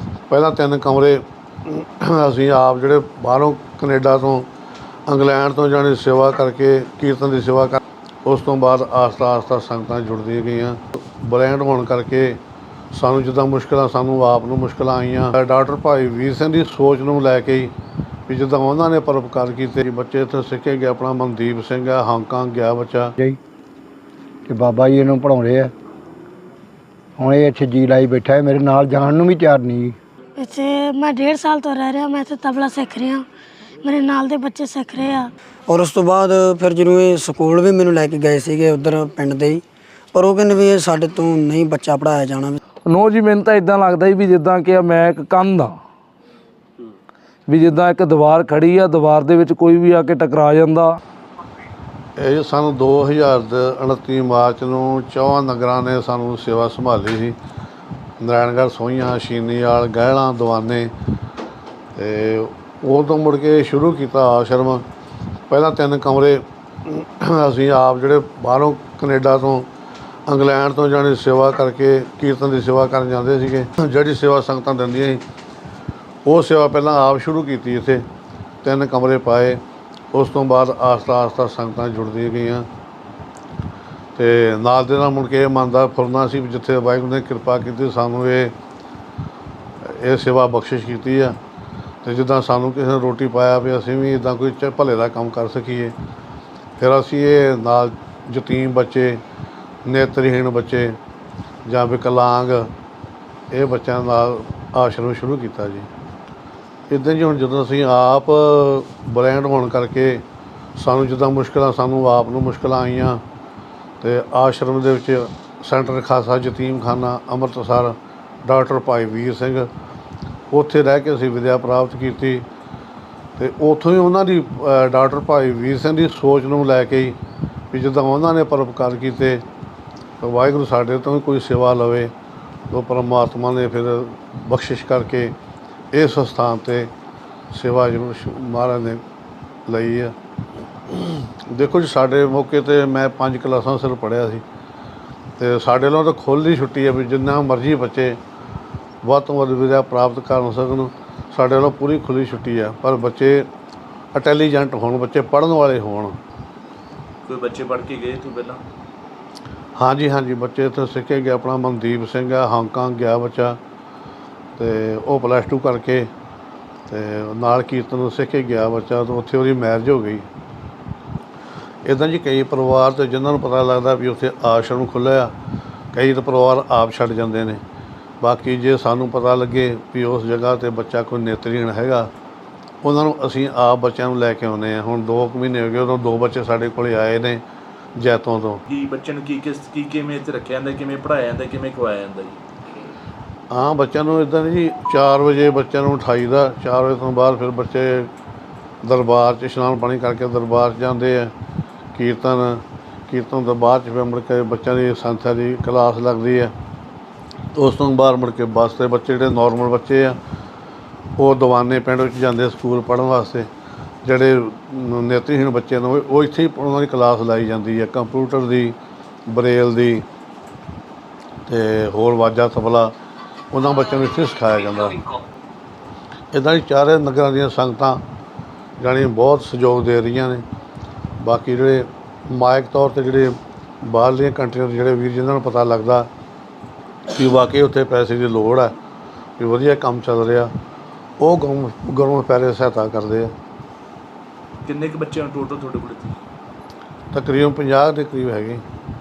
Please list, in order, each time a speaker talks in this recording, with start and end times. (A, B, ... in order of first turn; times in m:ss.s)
0:00.3-0:04.5 A
0:05.1-0:12.4 A
0:12.9-0:17.7 A
0:18.3-0:23.1 A
0:24.5-0:25.7 B
0:27.2-0:30.0 B
0:30.4-0:33.2 C
0:33.8-0:35.3 C
0:35.7-0:39.6 D
0:40.1-0:42.6 D
0:42.9-0:45.8 E
0:47.5-0:51.0 E
0:52.2-0:57.4 A
0:58.2-1:00.9 A
1:02.0-1:04.8 A
1:05.5-1:09.7 A
1:10.3-1:15.2 A
1:16.3-1:18.0 A
1:18.6-1:19.6 A
1:20.1-1:22.7 A
1:24.2-1:28.5 A
1:29.9-1:31.4 A
1:32.0-1:35.9 A
1:36.8-1:39.2 A
1:39.9-1:41.0 A
1:41.7-1:42.7 A
1:43.5-1:45.9 A
1:46.9-1:50.2 A
1:50.8-1:53.2 A
1:54.0-1:59.7 A
2:00.5-2:02.4 A
2:03.4-2:07.2 A
2:07.7-2:09.4 A
2:10.2-2:12.1 A
2:12.7-2:15.3 A
2:15.9-2:16.9 A
2:17.5-2:19.0 A
2:19.7-2:20.2 A
2:20.9-2:24.4 A
2:25.4-2:28.2 A
2:29.0-2:33.5 A
2:34.1-2:36.2 A
2:37.3-2:38.6 F
2:39.8-2:43.6 A
2:44.6-2:46.1 A
2:46.9-2:50.3 A
2:51.9-2:55.3 A
2:55.9-2:57.6 A
2:58.2-3:02.1 A
3:02.8-3:07.4 A
3:08.0-3:08.6 A
3:08.7-3:12.4 F
3:13.5-3:18.1 A
3:18.8-3:21.3 A
3:22.0-3:26.5 A
3:27.6-3:30.2 A
3:31.2-3:33.5 A
3:34.0-3:38.8 A
3:39.3-3:40.0 A
3:41.5-3:42.9 A
3:43.5-3:45.0 A
3:46.3-3:48.0 A
3:48.8-3:50.4 A
3:51.2-3:56.1 A
3:57.2-3:58.7 A
3:59.4-4:00.5 A
4:01.2-4:03.3 A
4:04.6-4:06.2 F
4:07.1-4:08.6 A